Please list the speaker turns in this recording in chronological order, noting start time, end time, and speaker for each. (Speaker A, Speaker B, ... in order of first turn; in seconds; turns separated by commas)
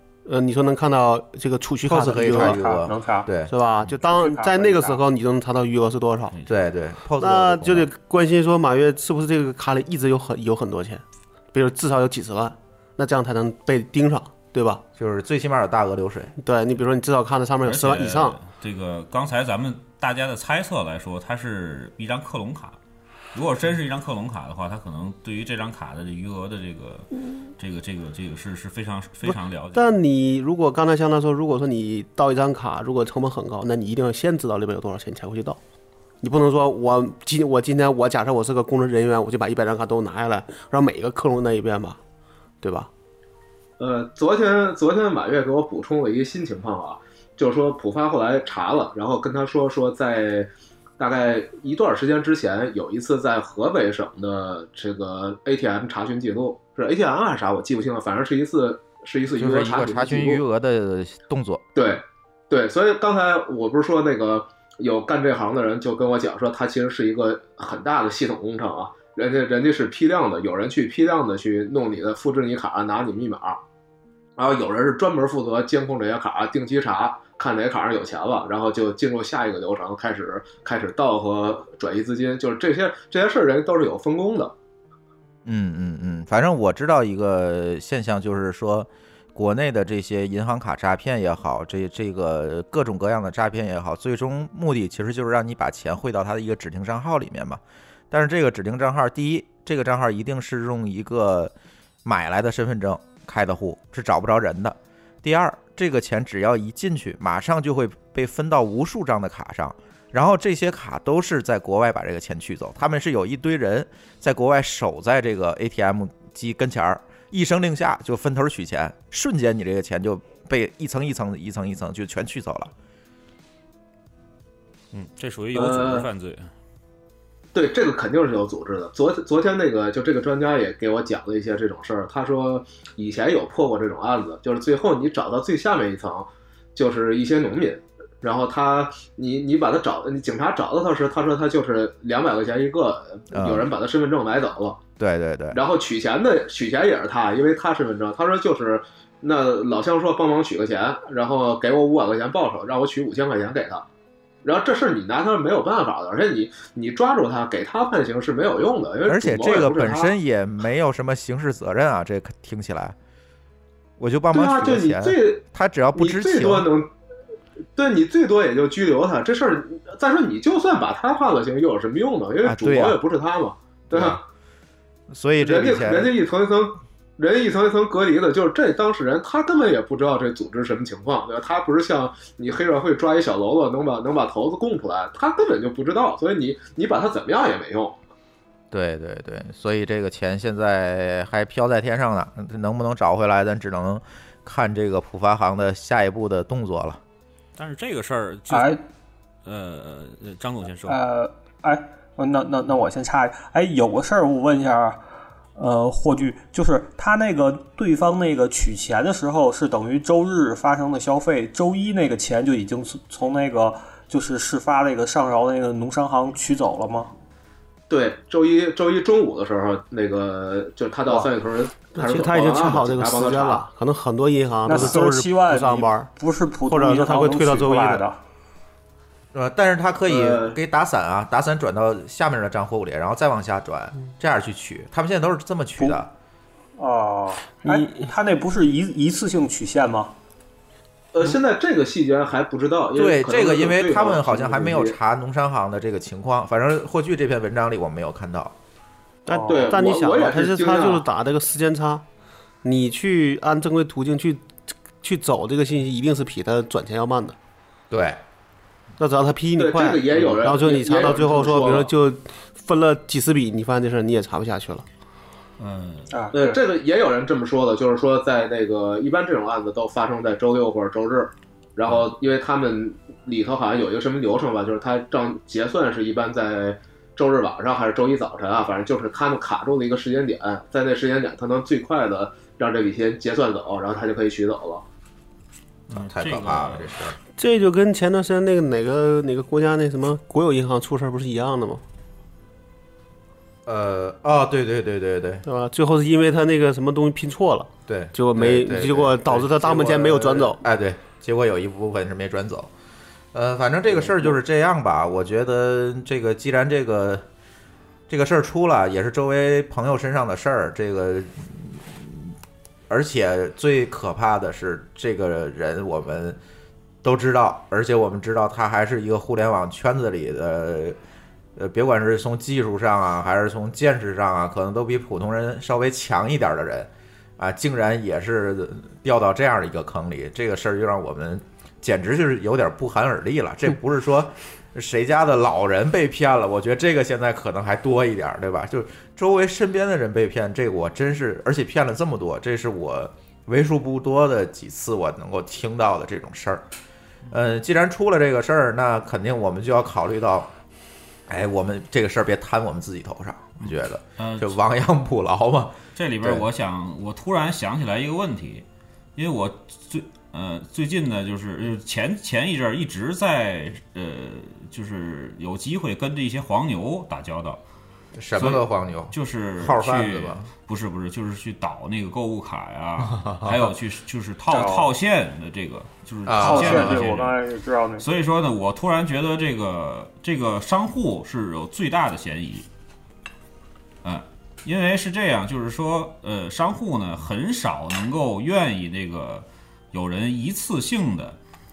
Speaker A: 0.2-2.6, Speaker B: 1.9-3.5, Speaker C: 2.2-3.3, Speaker A: 3.5-6.4, Speaker C: 4.0-5.0, Speaker D: 6.3-6.6, Speaker B: 6.5-7.9, Speaker A: 7.2-14.8, Speaker B: 15.0-16.3, Speaker A: 16.4-18.4, Speaker D: 17.6-22.8, Speaker D: 23.3-29.9, Speaker A: 29.7-35.6, Speaker A: 36.2-42.0, Speaker A: 42.6-42.9, Speaker E: 43.8-60.4, Speaker B: 59.3-61.6, Speaker E: 61.7-73.6, Speaker E: 74.4-84.5, Speaker B: 85.4-101.5, Speaker B: 102.0-122.7, Speaker D: 124.9-126.5, Speaker E: 125.5-126.1, Speaker E: 127.5-144.8, Speaker B: 143.3-143.7, Speaker B: 145.0-145.6, Speaker E: 145.5-153.8, Speaker E: 154.4-160.1, Speaker B: 159.0-162.9, Speaker B: 164.0-166.7, Speaker E: 164.3-165.4, Speaker E: 165.9-166.9, Speaker E: 167.8-174.2, Speaker B: 172.4-173.0, Speaker B: 173.9-174.2, Speaker B: 175.1-176.1, Speaker E: 175.4-188.0, Speaker B: 188.7-197.0, Speaker D: 197.6-198.8, Speaker C: 198.5-198.8, Speaker D: 199.4-201.0, Speaker C: 200.9-205.0, Speaker C: 205.6-217.1, Speaker E: 217.9-223.6, Speaker A: 221.9-226.1, Speaker C: 224.7-228.2, Speaker A: 226.7-228.0, Speaker B: 229.3-236.1, Speaker E: 230.1-230.6, Speaker C: 236.8-240.1, Speaker A: 237.6-237.9, Speaker E: 241.1-244.9, Speaker B: 242.9-248.5, Speaker A: 249.2-252.0, Speaker C: 249.3-249.7, Speaker E: 249.5-251.0, Speaker A: 252.6-257.4, Speaker B: 257.9-258.2, Speaker A: 259.0-264.9, Speaker E: 259.6-261.9, Speaker D: 265.6-266.1, Speaker C: 266.1-266.5, Speaker E: 266.3-284.8, Speaker D: 285.9-287.1, Speaker B: 285.9-287.2, Speaker A: 287.4-291.8, Speaker B: 293.6-295.4, Speaker A: 295.4-300.6, Speaker B: 297.9-302.7, Speaker B: 303.3-307.2, Speaker B: 308.1-312.4, Speaker B: 312.9-316.4, Speaker B: 317.0-321.0, Speaker B: 321.6-346.6, Speaker B: 347.3-350.5, Speaker B: 351.3-356.4, Speaker D: 354.2-354.6, Speaker D: 356.0-358.6, Speaker D: 359.1-367.6, Speaker B: 368.1-370.5, Speaker D: 368.3-377.4, Speaker B: 373.0-373.7, Speaker C: 374.5-374.9, Speaker B: 376.2-377.1, Speaker C: 376.4-378.0, Speaker D: 378.0-382.7, Speaker D: 384.0-391.4